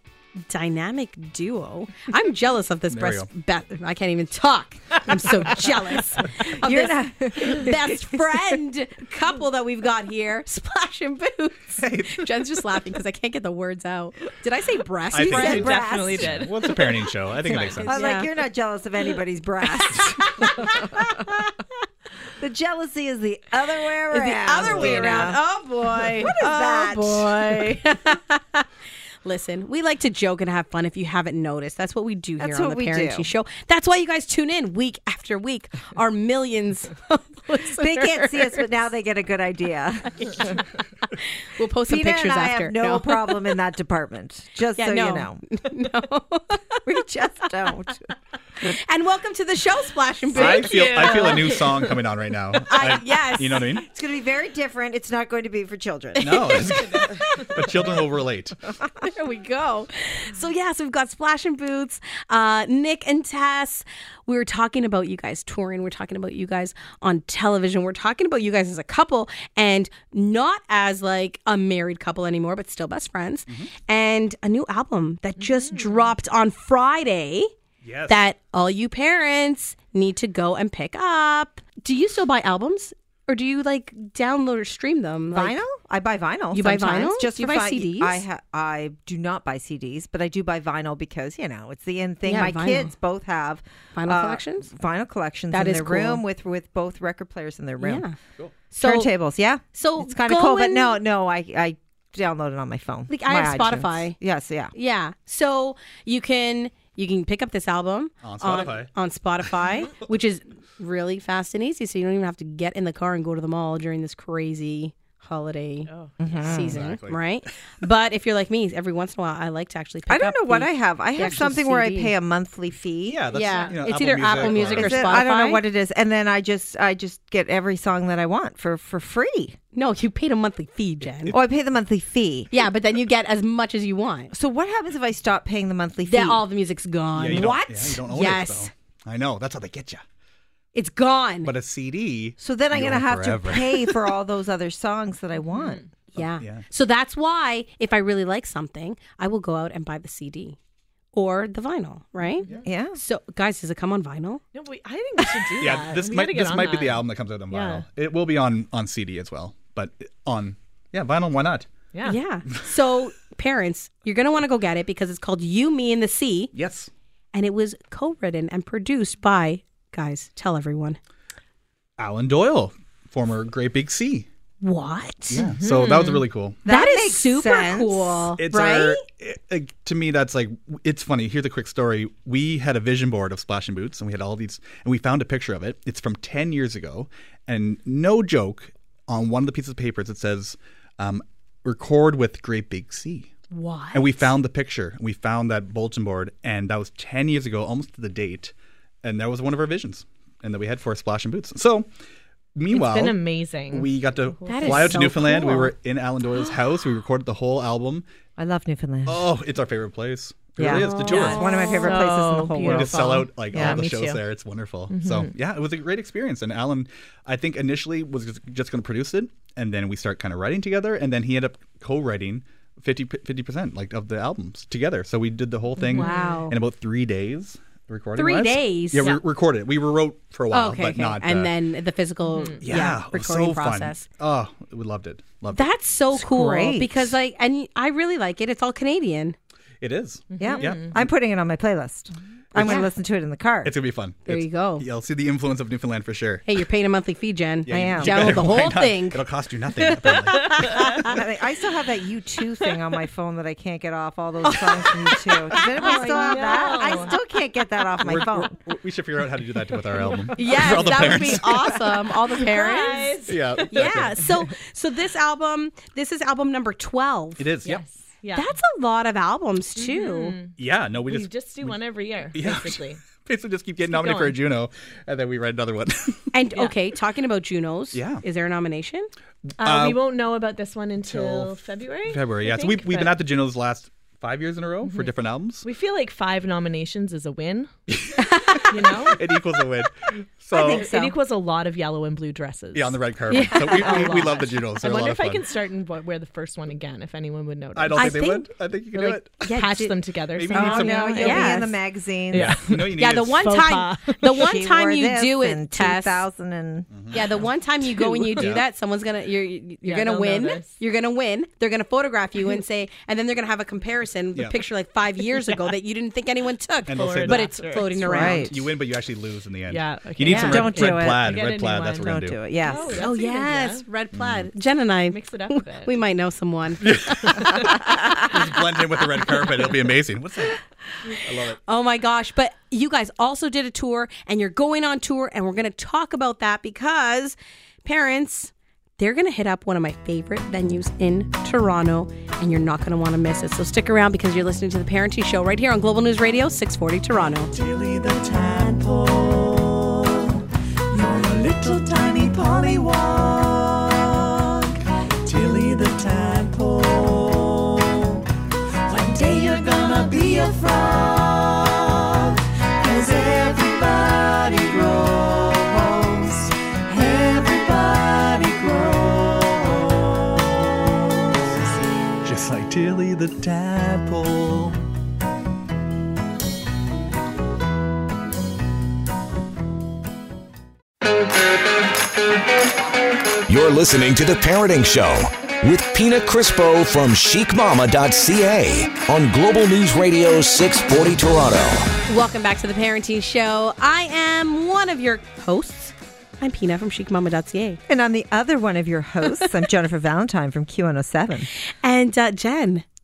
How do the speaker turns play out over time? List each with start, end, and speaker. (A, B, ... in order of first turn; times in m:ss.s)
0:00.4-0:15.8 A
0:02.9-0:03.3 B
0:06.3-0:08.6 C
0:11.8-0:12.2 B
0:15.1-0:17.9 B
0:15.2-0:16.4 C
0:15.3-0:18.1 D
0:17.8-0:21.5 C
0:17.8-0:18.3 A
0:20.0-0:20.5 A
0:22.4-0:25.4 C
0:24.1-0:28.7 A
0:24.6-0:25.3 B
0:26.2-0:27.8 C
0:29.2-0:38.7 A
0:32.4-0:33.3 C
0:37.6-0:40.5 C
0:40.2-0:40.6 A
0:41.4-0:43.4 A
0:41.9-0:45.4 C
0:44.8-0:46.8 A
0:46.8-0:48.1 C
0:48.6-0:51.8 A
0:50.3-0:53.8 B
0:50.4-0:51.6 D
0:52.6-0:53.7 A
0:53.8-0:56.6 C
0:56.2-0:57.5 A
0:56.2-0:58.6 B
0:59.0-1:17.5 A
1:15.6-1:16.0 D
1:17.8-1:18.2 B
1:18.1-1:25.6 A
1:25.3-1:38.1 C
1:26.5-1:28.2 A
1:32.2-1:32.9 A
1:33.9-1:34.7 A
1:35.5-1:36.2 A
1:37.8-1:38.2 A
1:38.7-1:39.1 A
1:38.8-1:44.7 C
1:39.8-1:41.0 A
1:43.1-1:44.2 A
1:44.7-1:55.9 A
1:48.2-1:48.9 B
1:55.9-1:56.1 D
1:56.2-1:56.8 C
1:56.2-1:57.2 B
1:56.4-2:02.1 A
2:00.1-2:03.2 C
2:03.0-2:05.2 B
2:03.3-2:05.6 A
2:04.4-2:09.6 C
2:09.7-2:11.3 A
2:11.3-2:12.5 C
2:12.5-2:14.3 A
2:14.3-2:16.4 C
2:16.1-2:18.7 A
2:17.2-2:20.0 B
2:17.3-2:17.6 C
2:20.7-2:21.5 A
2:21.4-2:23.9 B
2:22.4-2:25.8 C
2:25.5-2:25.8 D
2:26.1-2:30.6 A
2:26.2-2:26.6 B
2:31.1-2:34.4 A
2:32.6-2:33.0 C
2:34.5-2:37.8 D
2:35.6-2:41.7 B
2:41.9-2:42.2 D
2:42.0-2:46.5 A
2:46.5-2:46.9 B
2:47.3-2:51.0 A
2:52.0-2:54.3 B
2:54.6-2:55.4 A
2:55.3-2:56.6 B
2:55.3-2:56.2 D
2:56.6-2:58.3 C
2:56.6-2:59.0 A
2:58.4-3:13.3 B
3:13.5-3:14.3 A
3:13.9-3:21.9 B
3:22.5-3:23.2 B
3:22.7-3:25.0 D
3:23.7-3:28.0 B
3:24.5-3:25.7 A
3:28.4-3:29.3 C
3:29.0-3:31.5 B
3:30.6-3:33.8 C
3:30.6-3:32.0 A
3:31.1-3:34.2 D
3:32.6-3:51.5 B
3:34.9-3:35.3 D
3:45.8-3:46.5 D
3:45.9-3:46.6 A
3:48.2-3:49.1 A
3:50.5-3:54.1 A
3:52.2-3:52.6 D
3:52.6-3:55.7 B
3:55.5-3:59.4 A
3:56.1-3:57.1 C
3:59.8-4:01.0 B
4:00.3-4:00.9 D
4:00.4-4:03.7 C
4:02.5-4:02.8 B
4:02.6-4:02.9 A
4:03.6-4:06.6 B
4:04.2-4:04.8 A
4:06.4-4:09.2 A
4:07.7-4:11.1 B
4:07.7-4:08.6 C
4:09.8-4:11.1 A
4:11.0-4:18.5 C
4:14.5-4:17.0 A
4:15.6-4:17.1 D
4:18.0-4:22.1 B
4:20.0-4:20.7 D
4:20.4-4:27.4 A
4:22.4-4:24.0 D
4:23.2-4:24.4 B
4:27.4-4:27.8 B
4:27.6-4:28.5 D
4:28.3-4:30.4 A
4:29.8-4:33.0 D
4:30.6-4:31.8 B
4:32.3-4:36.3 B
4:33.9-4:34.4 D
4:36.3-4:39.1 A
4:37.9-4:38.2 B
4:39.6-4:40.0 B
4:39.6-4:43.1 D
4:41.0-4:45.6 B
4:44.8-4:47.7 D
4:47.9-4:50.9 B
4:48.7-4:49.2 D
4:50.5-4:51.2 C
4:50.5-4:58.4 D
4:52.7-4:55.4 B
4:53.3-4:54.2 A
4:57.7-4:59.7 B
4:57.9-4:58.5 A
4:58.9-5:01.7 D
4:59.4-4:59.9 A
5:00.3-5:01.4 B
5:00.5-5:01.7 A
5:00.6-5:02.6 C
5:02.3-5:04.4 D
5:02.3-5:03.5 B
5:02.9-5:06.2 A
5:04.3-5:06.9 C
5:06.9-5:07.2 B
5:07.1-5:18.7 A
5:08.0-5:08.6 B
5:09.8-5:10.8 D
5:16.9-5:22.4 B
5:16.9-5:18.0 D
5:18.0-5:18.5 C
5:19.7-5:23.8 D
5:20.3-5:20.6 A
5:20.3-5:21.4 C
5:22.0-5:23.0 C
5:22.9-5:27.6 A
5:24.1-5:24.5 B
5:25.1-5:26.0 D
5:26.8-5:31.6 B
5:27.3-5:27.8 D
5:31.7-5:47.5 A
5:47.5-5:58.2 E
5:58.8-6:11.1 E
6:12.2-6:14.8 B
6:23.5-6:31.9 F
6:32.1-6:37.8 A
6:37.9-6:41.5 C
6:41.6-6:42.8 A